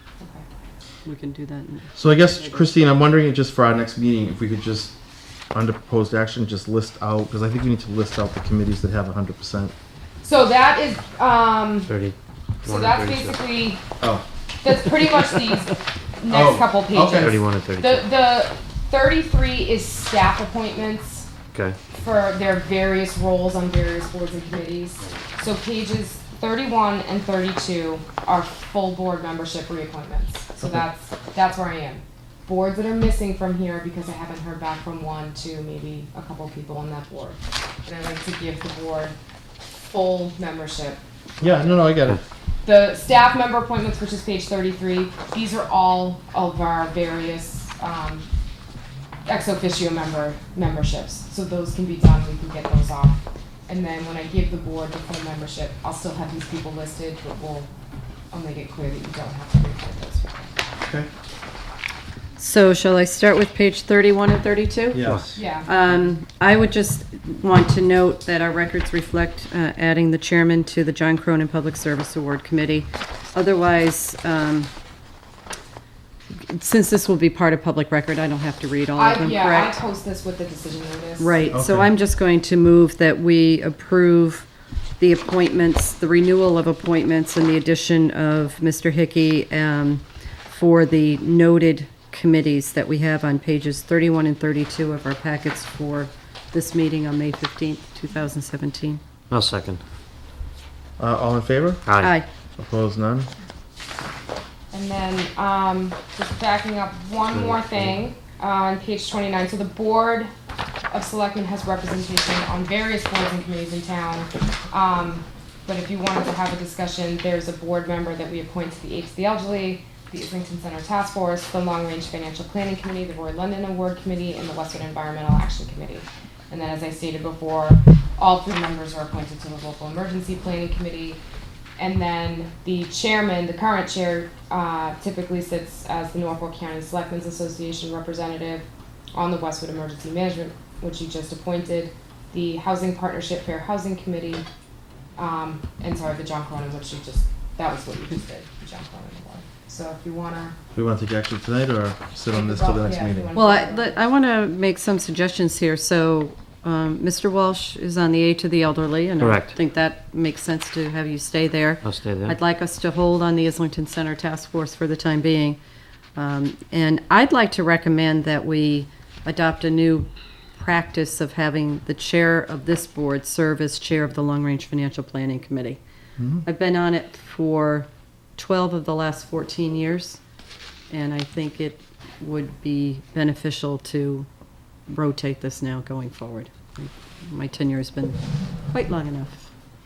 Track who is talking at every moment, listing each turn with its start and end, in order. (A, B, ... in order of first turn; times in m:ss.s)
0:00.2-0:00.4 A
0:01.0-0:02.7 B
0:02.0-0:04.9 C
0:05.5-0:09.7 C
0:10.2-0:11.9 A
0:11.9-0:13.4 D
0:12.6-0:13.8 A
0:14.6-0:21.3 A
0:16.3-0:17.3 C
0:17.1-0:18.1 D
0:21.9-0:41.7 A
0:41.4-0:42.2 C
0:42.6-0:48.3 A
0:49.3-0:57.7 A
0:58.3-1:00.5 A
1:00.8-1:01.1 C
1:02.4-1:05.1 B
1:04.9-1:05.3 C
1:05.0-1:05.3 D
1:05.3-1:05.7 A
1:05.6-1:14.7 B
1:16.5-1:19.8 B
1:19.0-1:21.4 A
1:21.2-1:24.4 B
1:21.5-1:21.9 C
1:25.0-1:39.0 B
1:39.3-1:39.8 D
1:41.0-1:41.8 C
1:41.8-1:42.2 D
1:42.0-1:42.3 B
1:42.6-1:43.3 C
1:44.7-1:50.3 A
1:47.3-1:47.9 D
1:50.9-2:11.2 A
2:11.8-2:24.4 A
2:25.2-2:30.6 A
2:30.7-2:33.3 C
2:32.3-2:34.0 A
2:33.3-2:45.6 B
2:39.2-2:39.5 D
2:41.8-2:42.4 D
2:46.2-2:55.8 B
2:56.2-2:56.4 C
2:56.4-3:00.2 B
3:00.9-3:04.3 B
3:04.9-3:08.2 B
3:08.7-3:09.5 B